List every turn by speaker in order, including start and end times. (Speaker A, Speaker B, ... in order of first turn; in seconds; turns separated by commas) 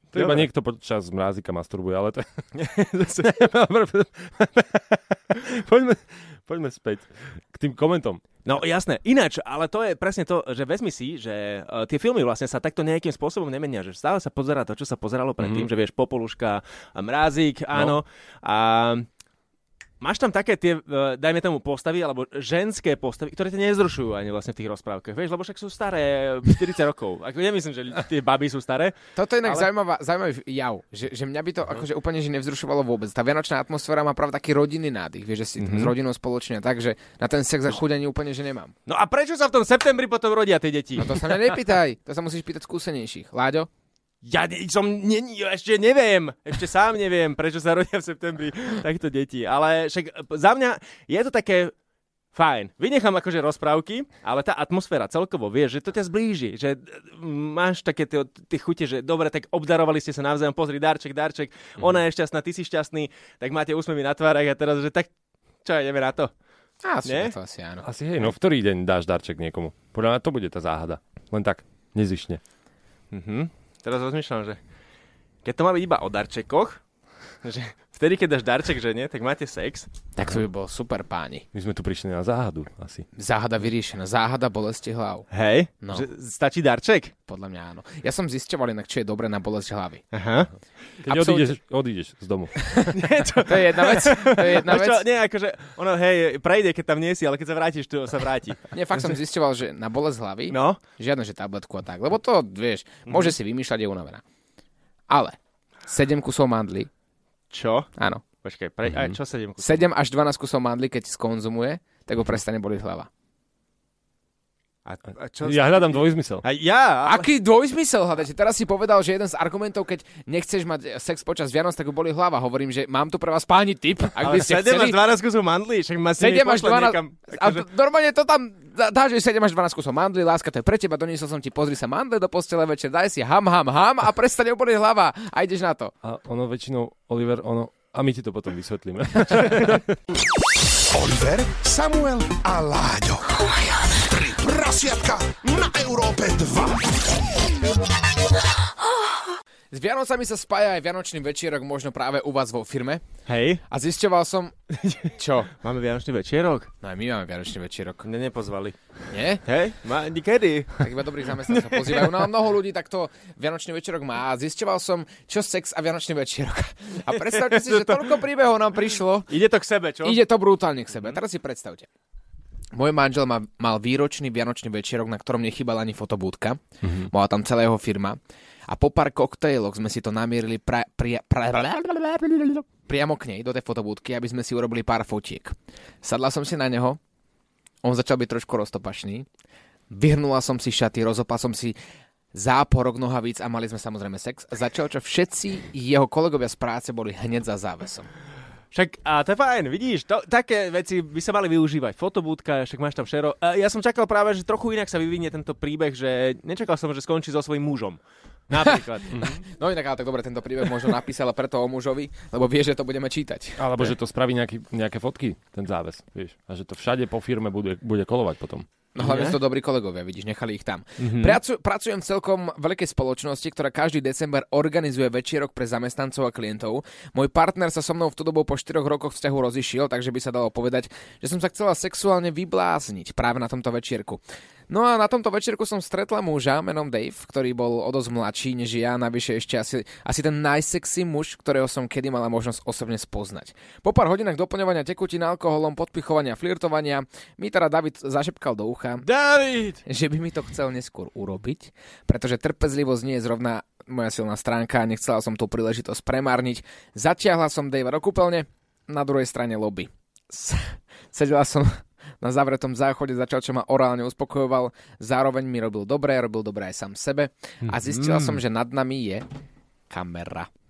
Speaker A: 0.1-0.5, Speaker B: 0.1-2.2, Speaker A: 2.5-3.3, Speaker B: 3.2-8.2, Speaker A: 8.4-19.1, Speaker B: 15.4-15.7, Speaker A: 20.0-29.7, Speaker C: 29.2-38.7, Speaker A: 35.6-35.9, Speaker A: 38.9-41.4, Speaker C: 41.0-43.7, Speaker A: 44.2-51.7, Speaker A: 52.3-65.1, Speaker A: 65.6-66.3, Speaker C: 66.8-67.8, Speaker A: 67.0-67.3, Speaker B: 67.8-72.4, Speaker A: 73.1-74.6, Speaker A: 75.5-76.8, Speaker A: 77.4-79.9, Speaker C: 80.2-81.5, Speaker B: 81.5-83.1, Speaker C: 83.2-85.2, Speaker A: 85.3-87.1, Speaker C: 87.3-90.0, Speaker A: 90.1-90.5, Speaker B: 91.0-93.0, Speaker C: 91.1-91.5, Speaker A: 92.9-98.7, Speaker C: 93.5-95.0, Speaker C: 98.7-104.2, Speaker A: 100.5-100.8, Speaker A: 103.1-103.3, Speaker C: 105.1-106.9, Speaker A: 107.5-109.9, Speaker C: 109.6-113.1, Speaker A: 114.8-117.3, Speaker B: 115.4-116.5, Speaker C: 117.1-125.0, Speaker A: 124.2-127.6, Speaker C: 126.2-135.9, Speaker B: 136.0-140.0, Speaker D: 140.9-146.9, Speaker C: 149.7-153.0, Speaker A: 153.2-153.6, Speaker C: 153.7-154.5, Speaker A: 154.7-156.7, Speaker C: 155.2-155.5, Speaker C: 156.8-158.1, Speaker A: 158.0-158.8, Speaker C: 159.1-159.4, Speaker A: 159.4-160.9, Speaker C: 160.8-169.3, Speaker A: 161.5-162.3, Speaker A: 167.2-168.1, Speaker A: 169.3-170.2, Speaker C: 170.0-171.9, Speaker C: 172.7-187.0, Speaker B: 176.8-177.1, Speaker C: 187.8-189.3, Speaker C: 189.9-191.8, Speaker C: 192.3-198.1, Speaker A: 198.7-209.2, Speaker B: 209.1-209.4, Speaker C: 209.2-213.9, Speaker B: 213.6-218.7, Speaker C: 218.9-249.1, Speaker A: 219.0-219.4, Speaker A: 221.0-221.4, Speaker A: 249.0-249.8, Speaker C: 249.9-269.2, Speaker A: 267.6-268.4, Speaker C: 269.9-270.5